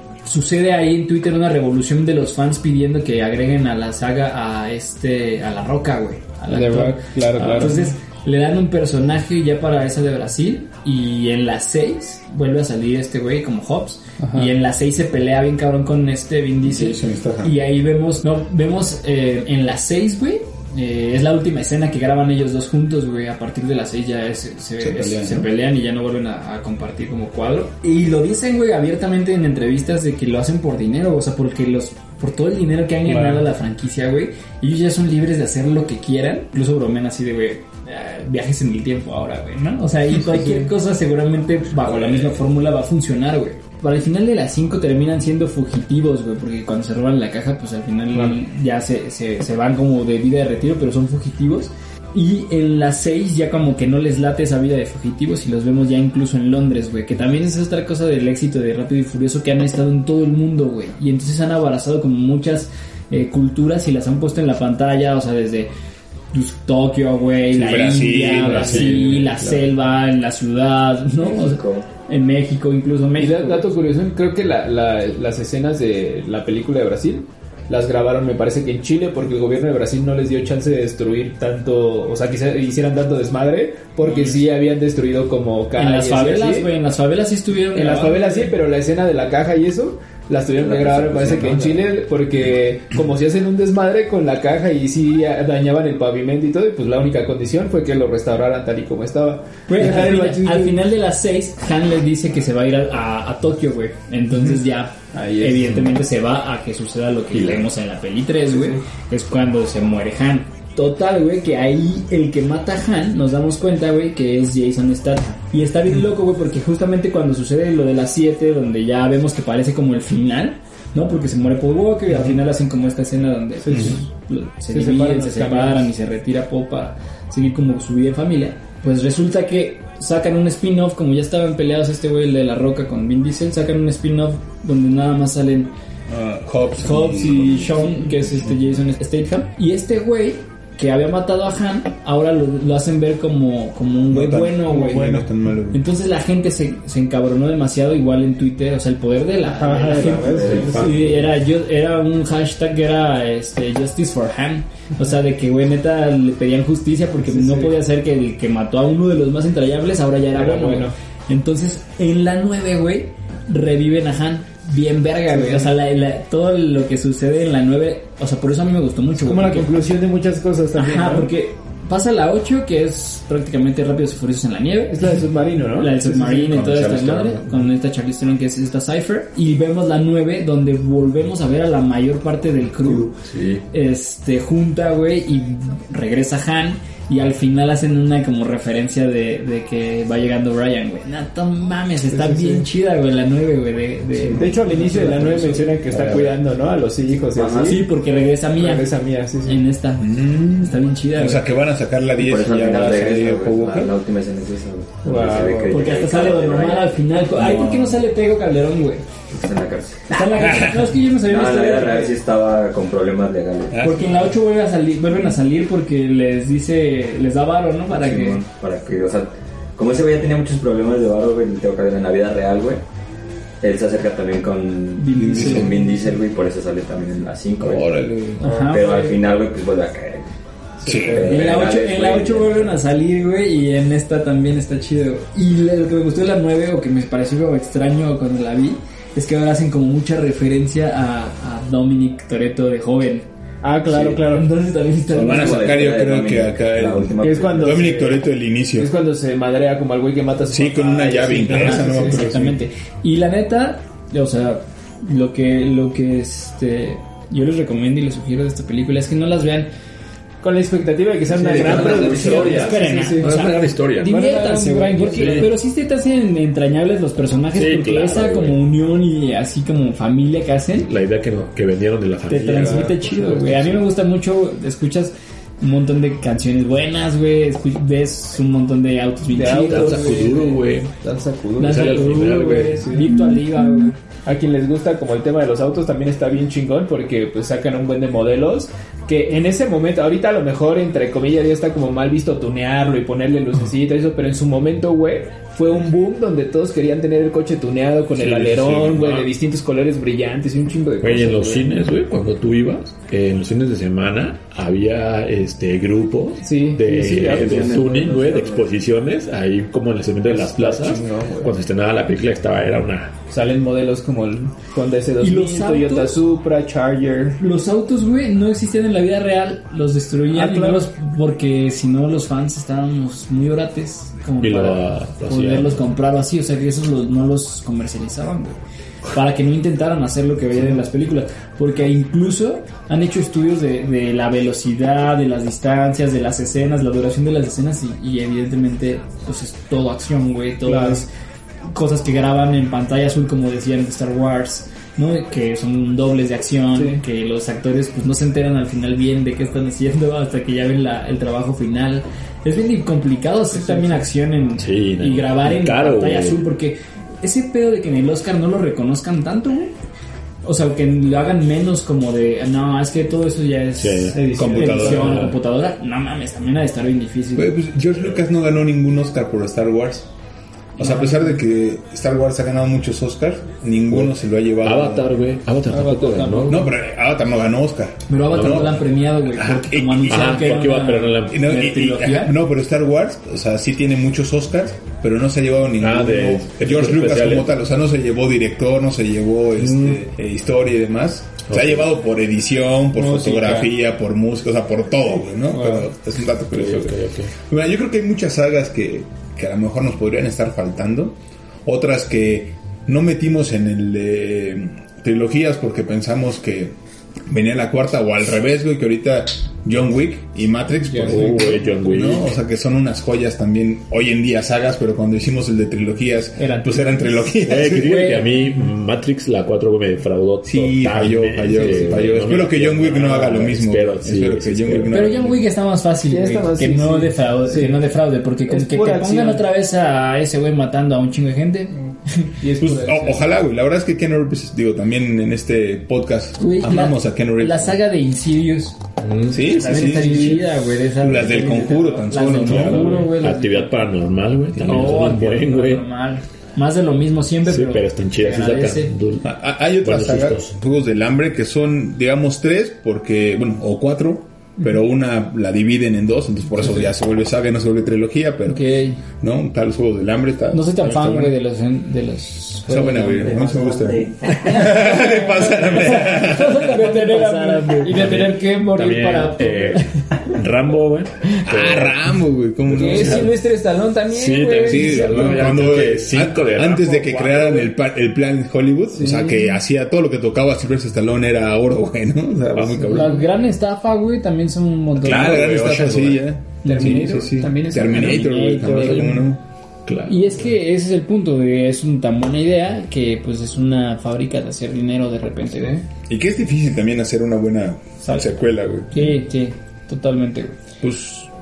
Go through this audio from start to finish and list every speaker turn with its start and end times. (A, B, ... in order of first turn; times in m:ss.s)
0:00.3-1:05.7 A
0:06.5-0:07.9 B
0:14.2-0:14.5 B
0:16.6-0:17.6 C
0:24.8-0:25.5 C
0:33.1-0:33.5 B
0:40.1-0:40.7 B
0:41.8-0:42.3 D
0:48.1-0:48.4 B
1:06.3-1:13.7 A
1:07.5-1:09.3 C
1:07.7-1:09.5 D
1:11.2-1:11.9 E
1:13.2-1:26.7 B
1:24.0-1:24.4 A
1:25.8-1:28.6 A
1:27.7-1:40.8 B
1:30.5-1:31.8 E
1:39.7-2:15.7 A
1:44.3-1:44.6 B
1:45.1-1:45.9 B
1:47.3-1:47.7 D
1:48.5-1:48.8 B
2:03.6-2:04.0 B
2:03.7-2:04.0 C
2:04.7-2:05.9 B
2:16.1-2:18.8 C
2:16.8-2:49.7 A
2:24.1-2:25.8 C
2:29.5-2:31.2 B
2:29.8-2:31.0 E
2:30.5-2:31.1 D
2:37.2-2:37.8 B
2:40.3-2:40.9 B
2:45.3-2:45.7 B
2:49.2-2:51.3 B
2:50.8-2:55.0 A
2:54.9-2:56.5 B
2:55.8-3:03.1 A
2:56.1-2:57.7 C
3:03.1-3:03.6 D
3:03.7-3:15.6 A
3:12.1-3:12.7 B
3:14.3-3:17.8 B
3:15.9-3:16.3 D
3:17.3-3:17.8 E
3:17.6-3:18.9 A
3:18.6-3:19.6 B
3:19.4-3:21.5 A
3:20.0-3:23.9 C
3:22.2-3:27.8 E
3:25.0-3:25.9 B
3:25.7-3:29.1 A
3:27.3-3:28.0 C
3:29.3-3:30.6 E
3:30.1-3:32.1 A
3:30.4-3:30.9 C
3:31.2-3:33.8 E
3:33.7-3:34.4 C
3:33.8-3:38.4 A
3:37.9-3:42.8 E
3:43.6-3:50.3 E
3:45.0-3:45.9 A
3:45.1-3:45.7 C
3:47.6-3:48.5 C
3:48.4-3:49.1 A
3:48.4-3:49.1 B
3:50.8-3:52.8 E
3:50.8-3:51.6 B
3:50.9-3:51.4 C
3:51.2-4:03.3 A
4:03.6-4:04.5 B
4:03.9-4:04.1 E
4:04.1-4:05.6 A
4:05.1-4:07.8 E
4:05.2-4:08.9 C
4:07.2-4:08.2 B
4:08.8-4:12.3 B
4:10.5-4:12.6 C
4:11.5-4:19.7 A
4:20.4-4:25.5 B
4:21.4-4:24.1 D
4:21.4-4:21.8 C
4:21.5-4:30.9 A
4:25.2-4:25.5 D
4:27.5-4:28.6 D
4:30.8-4:33.8 D
4:32.3-4:40.3 A
4:32.6-4:33.0 B
4:39.3-4:43.2 B
4:39.4-4:40.9 D
4:41.6-4:44.0 A
4:41.6-4:42.9 D
4:44.2-5:01.7 B
4:58.1-4:59.3 D
5:01.0-5:13.1 D
5:06.4-5:08.2 B
5:07.1-5:08.7 E
5:10.3-5:11.4 B
5:10.8-5:11.5 C
5:13.3-5:17.4 B
5:15.2-5:16.2 A
5:17.4-5:28.6 A
5:20.3-5:20.9 B
5:24.4-5:25.8 D
5:29.1-5:41.1 A
5:40.6-5:41.0 B
5:41.7-5:59.7 A
5:46.8-5:47.0 B
5:53.5-5:54.1 B
5:54.6-5:56.5 D
6:00.4-6:07.6 A
6:03.8-6:04.2 D
6:04.1-6:05.3 B
6:04.3-6:05.4 C
6:07.4-6:10.1 C
6:10.8-6:11.4 A
6:10.8-6:15.3 C
6:13.9-6:16.6 D
6:15.7-6:16.7 B
6:16.5-6:20.7 C
6:18.1-6:22.4 A
6:18.3-6:18.7 D
6:20.1-6:21.4 D
6:21.3-6:46.8 C
6:25.8-6:27.5 D
6:29.6-6:30.0 D
6:31.5-6:31.9 D
6:32.9-6:33.7 B
6:35.5-6:35.9 B
6:36.5-6:37.3 D
6:47.3-6:58.2 C
6:50.8-6:51.8 B
6:51.0-6:52.3 D
6:56.4-6:57.1 B
6:57.4-7:05.0 D
7:00.4-7:05.5 C
7:01.5-7:02.2 B
7:04.9-7:12.3 A
7:06.0-7:07.8 B
7:08.5-7:09.5 B
7:12.4-7:13.2 B
7:12.6-7:17.8 C
7:16.4-7:18.8 A
7:19.0-7:19.5 D
7:19.3-7:20.4 C
7:19.5-7:23.8 A
7:19.8-7:20.4 B
7:21.0-7:23.0 C
7:22.4-7:25.9 D
7:22.6-7:23.1 B
7:24.6-7:28.9 A
7:24.6-7:25.0 C
7:27.5-7:30.6 D
7:29.2-7:41.4 C
7:38.5-7:39.0 A
7:40.5-7:43.5 A
7:42.6-7:46.8 C
7:43.0-7:44.8 E
7:45.0-7:49.8 B
7:45.9-7:48.1 A
7:47.9-7:52.0 D
7:51.4-7:53.3 C
7:52.6-7:53.4 D
7:52.7-7:55.6 B
7:54.1-7:57.4 D
7:54.7-8:03.3 C
7:59.0-7:59.5 B
8:02.5-8:03.0 D
8:02.9-8:05.4 A
8:05.0-8:09.4 C
8:05.0-8:06.3 D
8:06.6-8:09.2 B
8:06.7-8:07.1 A
8:08.0-8:09.0 A
8:09.9-8:10.3 D
8:10.1-8:15.9 A
8:16.1-8:19.2 C
8:18.0-8:18.3 A
8:18.9-8:20.6 A
8:20.8-8:21.3 C